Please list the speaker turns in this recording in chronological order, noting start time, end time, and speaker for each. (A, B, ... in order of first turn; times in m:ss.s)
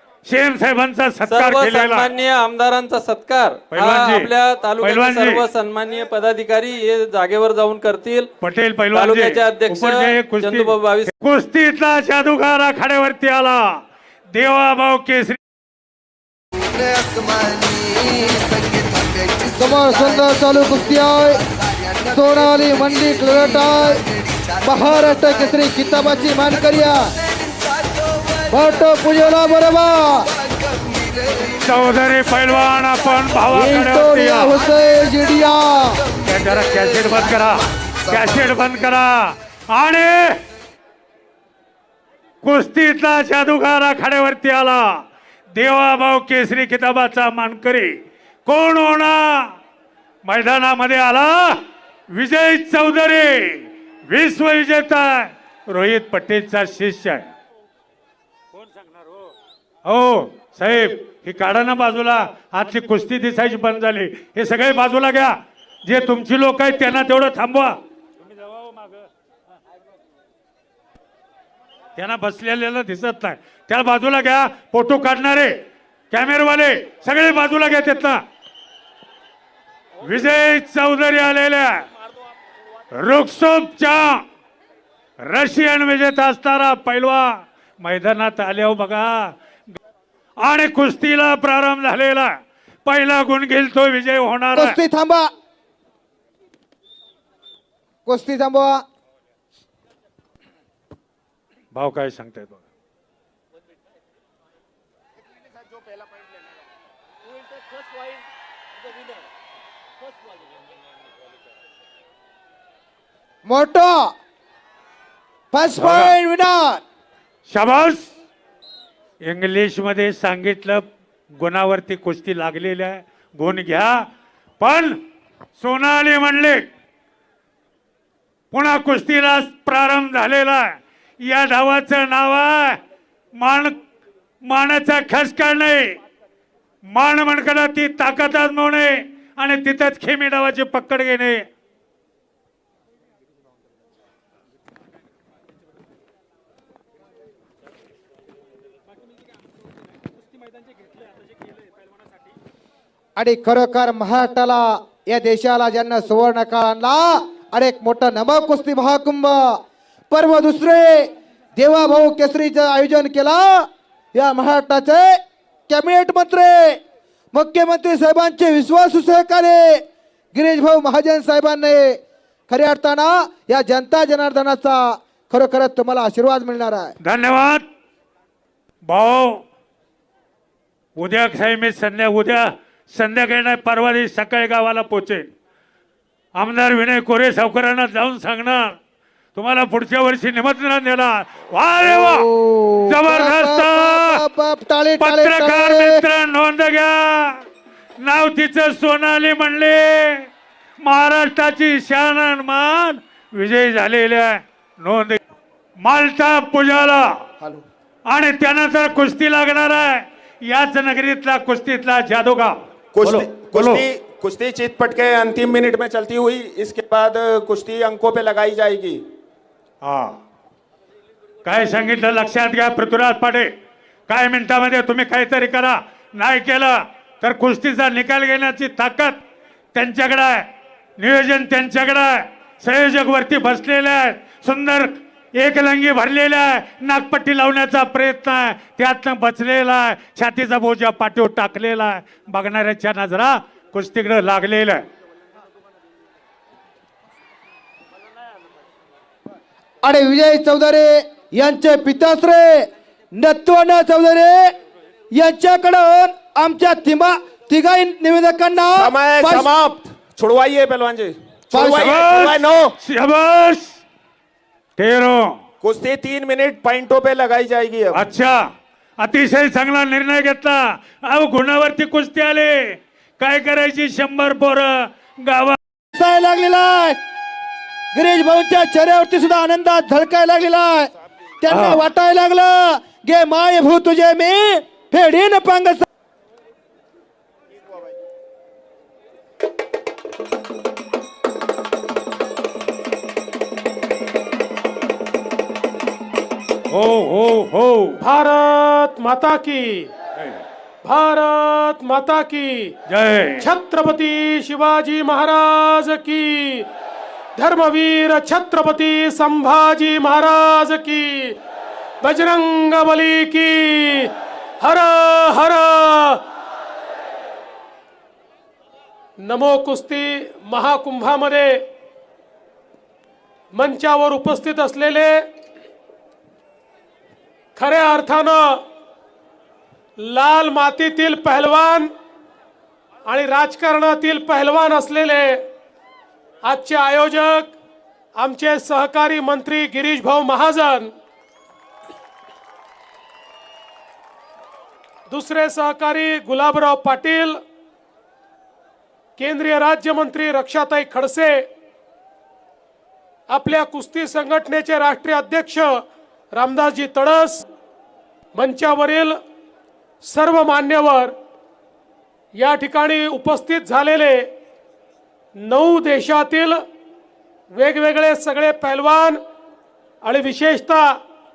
0:00.2-0:02.1 A
0:01.3-0:08.3 B
0:03.7-0:04.3 A
0:04.8-0:05.4 A
0:08.4-0:13.8 A
0:08.9-0:11.1 B
0:14.3-0:15.4 A
0:19.4-0:21.5 C
0:22.0-0:27.1 C
0:28.5-0:30.4 C
0:31.6-0:34.6 A
0:33.5-0:36.1 C
0:36.2-0:40.4 A
0:42.4-0:47.9 A
0:48.4-0:49.5 A
0:50.2-0:57.3 A
0:59.8-1:07.8 A
1:08.6-1:09.0 A
1:12.0-1:15.6 A
1:16.1-1:18.2 A
1:20.0-1:21.9 A
1:22.9-1:24.2 A
1:25.2-1:29.3 A
1:30.4-1:34.8 A
1:34.5-1:35.3 C
1:38.0-1:38.8 C
1:41.7-1:42.6 A
1:53.4-1:54.1 C
1:55.5-1:56.8 C
1:55.8-1:56.1 A
1:57.5-1:58.1 A
1:59.2-2:04.0 A
2:04.6-2:05.0 A
2:05.6-2:06.6 A
2:08.5-2:12.8 A
2:13.4-2:13.8 A
2:14.4-2:16.0 A
2:16.9-2:21.4 A
2:33.2-2:46.8 C
2:47.3-2:57.0 C
2:57.0-2:57.6 A
2:58.8-2:59.4 A
3:01.0-3:05.3 A
3:06.3-3:08.8 A
3:09.4-3:12.3 A
3:11.8-3:16.0 C
3:12.8-3:14.2 A
3:15.0-3:17.4 A
3:18.0-3:20.3 A
3:20.8-3:25.2 A
3:25.8-3:27.0 A
3:28.1-3:33.8 A
3:32.9-3:39.0 D
3:39.8-3:40.2 A
3:41.4-3:43.5 A
3:44.1-3:49.2 A
3:49.7-3:50.5 A
3:51.0-4:04.8 A
4:09.8-4:14.5 C
4:15.1-4:19.5 C
4:18.7-4:22.7 D
4:21.5-4:22.0 C
4:21.8-4:23.8 A
4:24.8-4:25.4 A
4:25.6-4:28.0 D
4:27.9-4:35.6 A
4:35.9-4:37.0 C
4:37.9-4:45.8 C
4:41.5-4:41.8 A
4:56.7-4:58.0 A
4:58.0-4:59.9 E
5:00.8-5:02.7 E
5:02.9-5:03.4 A
5:03.4-5:06.7 E
5:07.4-5:11.4 E
5:12.0-5:16.2 E
5:19.2-5:21.6 E
5:23.5-5:25.2 E
5:27.6-5:28.6 E
5:30.0-5:31.9 E
5:33.0-5:35.5 E
5:36.4-5:37.5 E
5:38.2-5:40.9 E
5:45.1-5:47.4 E
5:49.2-5:51.5 E
5:53.3-5:57.4 E
5:58.3-5:59.2 E
6:00.0-6:01.1 E
6:02.3-6:04.3 E
6:05.4-6:06.6 E
6:07.5-6:09.2 E
6:10.0-6:11.0 E